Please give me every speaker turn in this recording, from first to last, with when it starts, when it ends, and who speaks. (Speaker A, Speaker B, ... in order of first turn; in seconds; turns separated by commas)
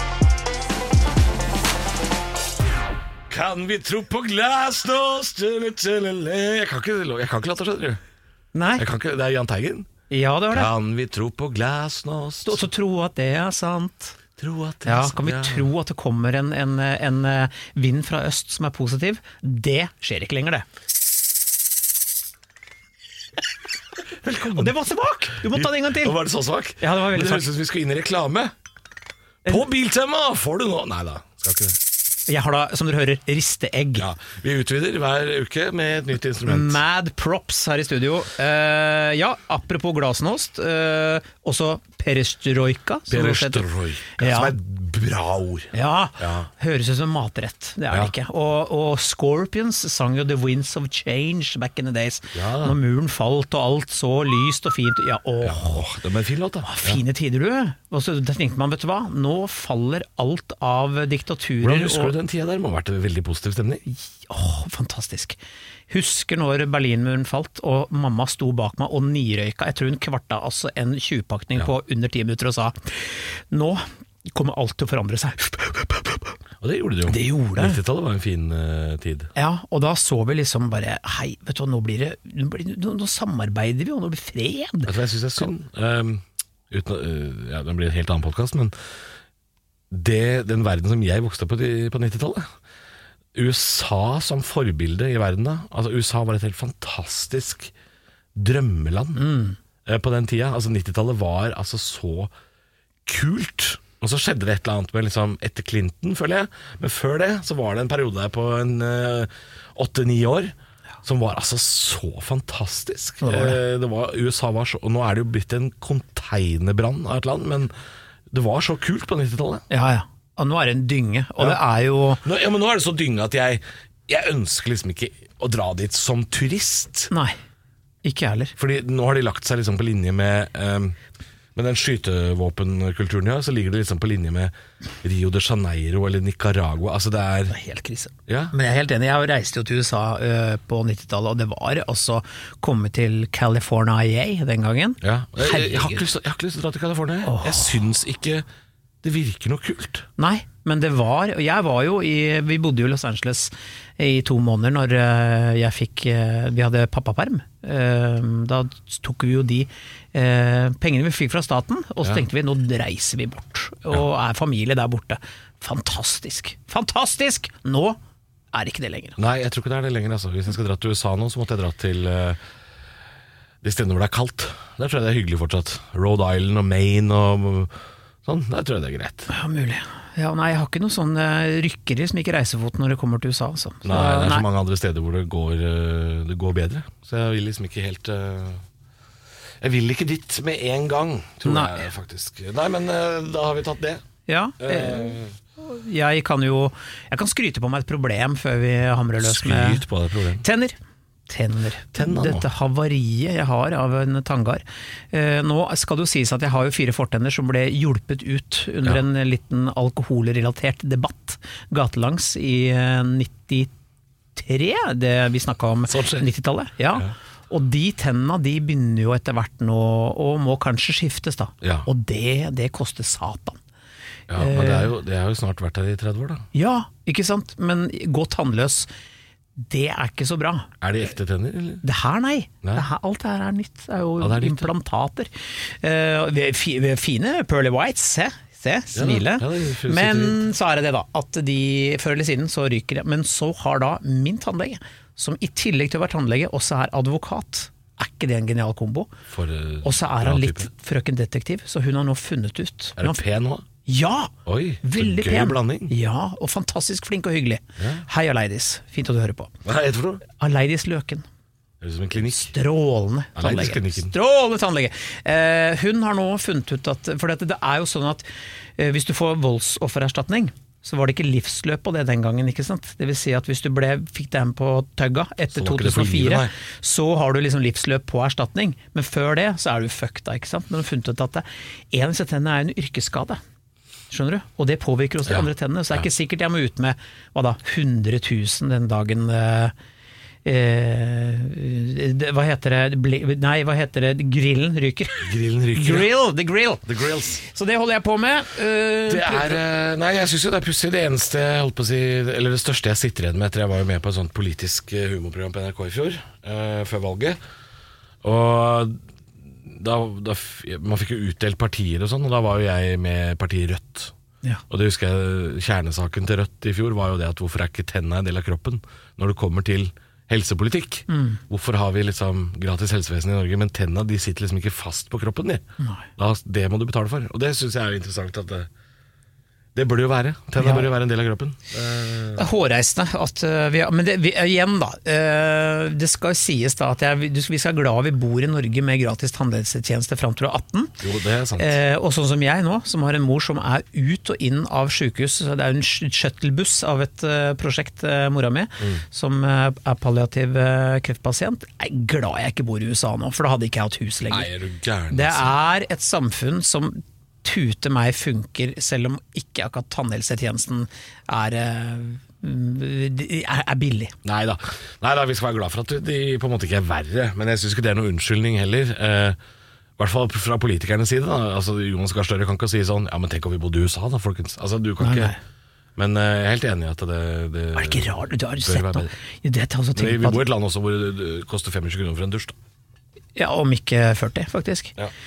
Speaker A: 3.3-8.0, Speaker B: 8.5-8.8, Speaker A: 8.8-9.9, Speaker B: 10.1-10.7, Speaker A: 10.5-12.7, Speaker B: 12.4-14.2, Speaker A: 14.4-15.7, Speaker B: 14.8-20.7, Speaker A: 24.2-24.8, Speaker B: 24.5-26.2, Speaker A: 25.4-28.5, Speaker B: 26.8-27.5, Speaker A: 29.4-31.8, Speaker B: 32.3-34.1, Speaker A: 34.0-36.8, Speaker B: 36.4-44.5, Speaker A: 43.1-46.5, Speaker B: 45.7-55.9, Speaker A: 52.3-52.8, Speaker A: 55.4-57.0, Speaker B: 56.6-62.1, Speaker A: 61.6-63.9, Speaker B: 63.9-65.4, Speaker B: 65.9-76.4, Speaker A: 76.6-79.3, Speaker B: 77.1-77.8, Speaker B: 79.3-85.0, Speaker A: 84.9-88.7, Speaker A: 89.9-92.5, Speaker A: 93.3-97.7, Speaker A: 98.3-99.3, Speaker B: 99.2-99.6, Speaker A: 99.9-102.3, Speaker A: 103.1-110.5, Speaker A: 111.0-117.7, Speaker B: 113.2-113.6, Speaker A: 118.3-119.7, Speaker B: 119.7-122.2, Speaker A: 122.2-127.1, Speaker B: 127.1-127.4, Speaker B: 128.0-128.6, Speaker A: 128.6-131.0, Speaker A: 131.6-137.6, Speaker B: 137.5-146.1, Speaker A: 138.3-138.5, Speaker A: 145.0-148.4, Speaker B: 147.2-147.8, Speaker A: 149.0-150.1, Speaker B: 150.2-168.0, Speaker B: 168.5-169.2, Speaker A: 169.2-172.4, Speaker A: 173.6-177.7, Speaker A: 178.2-179.3, Speaker B: 179.3-184.4, Speaker A: 183.8-188.6, Speaker A: 189.6-194.0, Speaker B: 191.4-191.8, Speaker B: 194.3-199.8, Speaker A: 194.6-195.3, Speaker A: 199.2-200.4, Speaker B: 200.4-200.8, Speaker B: 201.3-213.7, Speaker A: 201.9-202.5, Speaker B: 214.4-223.6, Speaker A: 215.9-216.3, Speaker A: 221.6-221.9, Speaker A: 224.3-226.5, Speaker B: 224.4-224.9, Speaker B: 226.5-228.9, Speaker B: 229.6-230.7, Speaker A: 230.8-231.8, Speaker B: 231.8-249.1, Speaker A: 234.2-234.7, Speaker A: 238.9-240.4, Speaker A: 249.3-250.7, Speaker B: 249.8-253.2, Speaker A: 253.0-253.7, Speaker B: 253.9-259.5, Speaker A: 254.5-255.9, Speaker A: 257.8-258.0, Speaker A: 259.6-260.2, Speaker B: 260.4-261.2, Speaker A: 261.8-262.5, Speaker B: 262.3-268.2, Speaker A: 263.4-264.1, Speaker B: 268.8-283.4, Speaker A: 275.5-276.5, Speaker B: 284.1-289.7, Speaker A: 285.3-286.0, Speaker B: 290.4-296.9, Speaker A: 295.2-296.1, Speaker A: 296.9-297.4, Speaker B: 297.4-299.6, Speaker A: 299.1-307.4, Speaker A: 308.2-314.1, Speaker A: 314.7-325.6, Speaker B: 321.1-321.4, Speaker B: 325.8-326.1, Speaker A: 326.2-328.7, Speaker A: 329.8-332.4, Speaker B: 330.6-330.9, Speaker B: 332.4-341.0, Speaker A: 341.0-341.8, Speaker B: 341.6-354.5, Speaker A: 354.3-355.5, Speaker B: 355.1-364.1, Speaker A: 364.2-369.4, Speaker A: 370.0-375.3, Speaker B: 375.0-375.4, Speaker A: 376.0-379.1, Speaker B: 377.8-380.4, Speaker A: 380.0-382.6, Speaker B: 383.4-385.0